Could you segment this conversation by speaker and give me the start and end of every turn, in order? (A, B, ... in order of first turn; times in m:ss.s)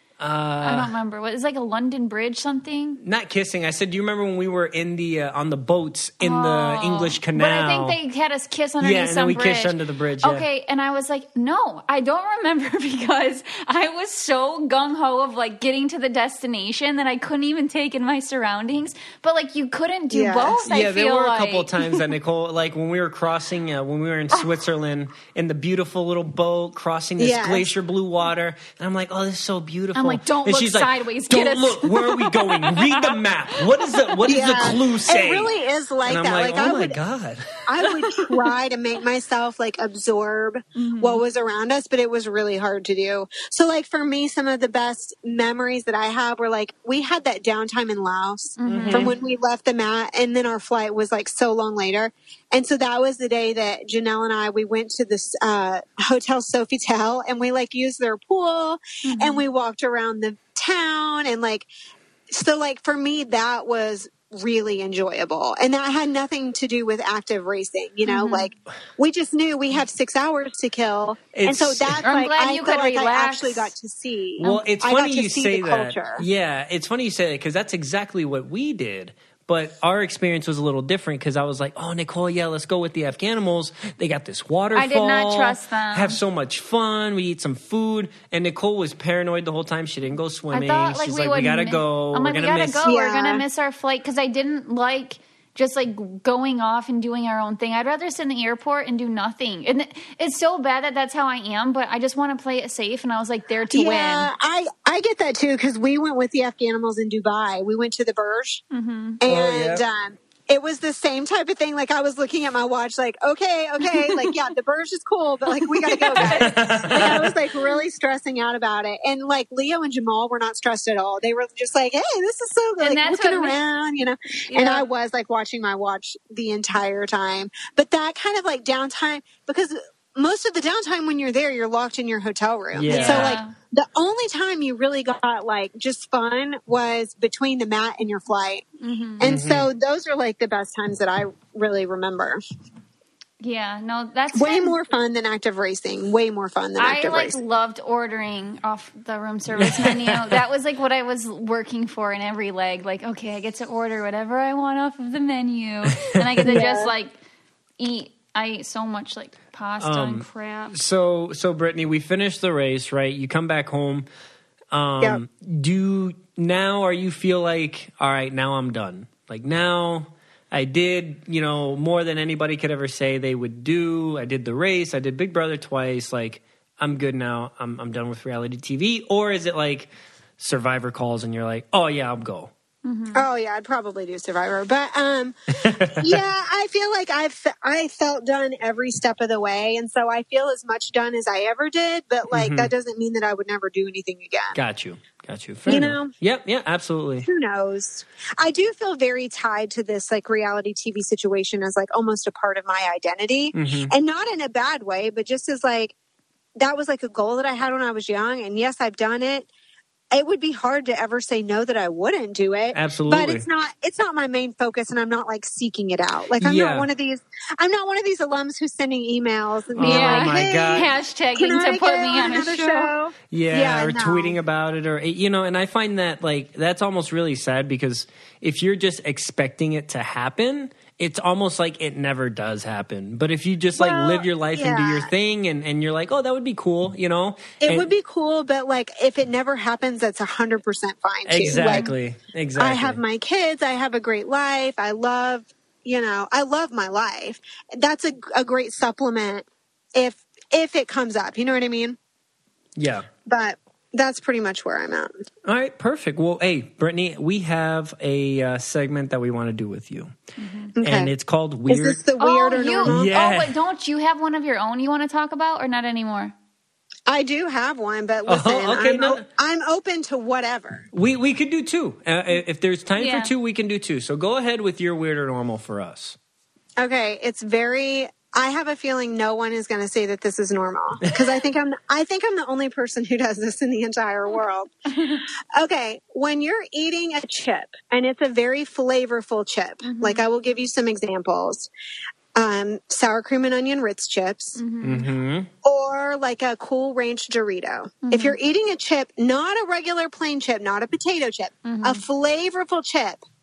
0:00.2-0:00.9 A
0:00.6-0:03.0 B
0:03.0-0:08.0 A
0:06.2-0:22.0 B
0:08.8-0:10.4 A
0:20.1-0:20.6 C
0:20.6-0:35.5 A
0:27.2-0:27.7 C
0:29.9-0:34.5 B
0:34.2-0:37.0 C
0:36.0-0:37.4 A
0:37.6-1:01.7 C
0:40.8-0:41.2 B
0:48.6-0:49.1 B
0:48.6-0:49.1 A
0:59.0-0:59.4 B
1:02.3-1:16.2 C
1:08.0-1:08.5 B
1:11.3-1:12.0 A
1:12.0-1:13.7 B
1:14.4-1:14.6 B
1:14.4-1:32.8 A
1:24.7-1:26.2 B
1:30.5-1:44.3 B
1:32.8-1:33.4 C
1:43.7-1:48.6 C
1:48.7-1:49.2 B
1:49.2-2:18.6 C
1:49.2-1:49.8 A
1:53.8-1:54.4 B
1:55.5-1:57.2 B
1:56.1-1:57.3 A
2:02.8-2:03.6 B
2:04.5-2:04.8 B
2:12.7-2:13.4 A
2:12.9-2:13.5 B
2:18.8-2:19.3 B
2:19.2-2:22.4 C
2:19.2-2:19.7 A
2:23.4-2:24.8 B
2:24.3-2:27.4 C
2:26.8-2:37.2 B
2:29.6-2:30.3 A
2:36.3-2:36.6 A
2:36.4-2:36.9 C
2:37.8-2:40.7 B
2:39.8-2:44.0 A
2:44.7-3:02.5 A
3:02.8-3:03.2 B
3:03.1-3:14.6 C
3:05.6-3:06.2 A
3:12.3-3:12.7 A
3:14.5-3:17.2 A
3:15.7-3:16.1 C
3:17.2-3:25.9 C
3:23.5-3:23.9 A
3:26.6-3:29.5 C
3:30.1-3:44.4 C
3:32.7-3:33.4 A
3:36.4-3:36.9 A
3:39.8-3:40.9 A
3:39.8-3:42.9 B
3:43.3-3:57.9 A
3:53.7-3:55.1 C
3:57.6-4:01.9 C
4:01.3-4:03.0 A
4:01.5-4:01.9 B
4:02.6-4:12.0 C
4:12.8-4:13.1 A
4:13.2-4:15.1 C
4:15.4-4:20.1 A
4:20.4-4:20.7 B
4:20.8-4:21.1 C
4:20.8-4:22.0 A
4:21.7-4:23.1 C
4:22.2-4:26.3 B
4:22.8-4:23.6 A
4:27.1-4:30.8 C
4:28.3-4:29.2 A
4:30.9-4:36.2 A
4:33.0-4:33.3 B
4:36.8-4:44.7 C
4:45.0-4:45.2 B
4:45.6-4:51.7 C
4:49.8-4:50.2 B
4:52.3-4:54.6 C
4:54.6-4:55.1 B
4:54.8-4:55.5 A
4:55.6-5:03.2 C
4:58.0-4:58.4 B
5:01.6-5:02.0 B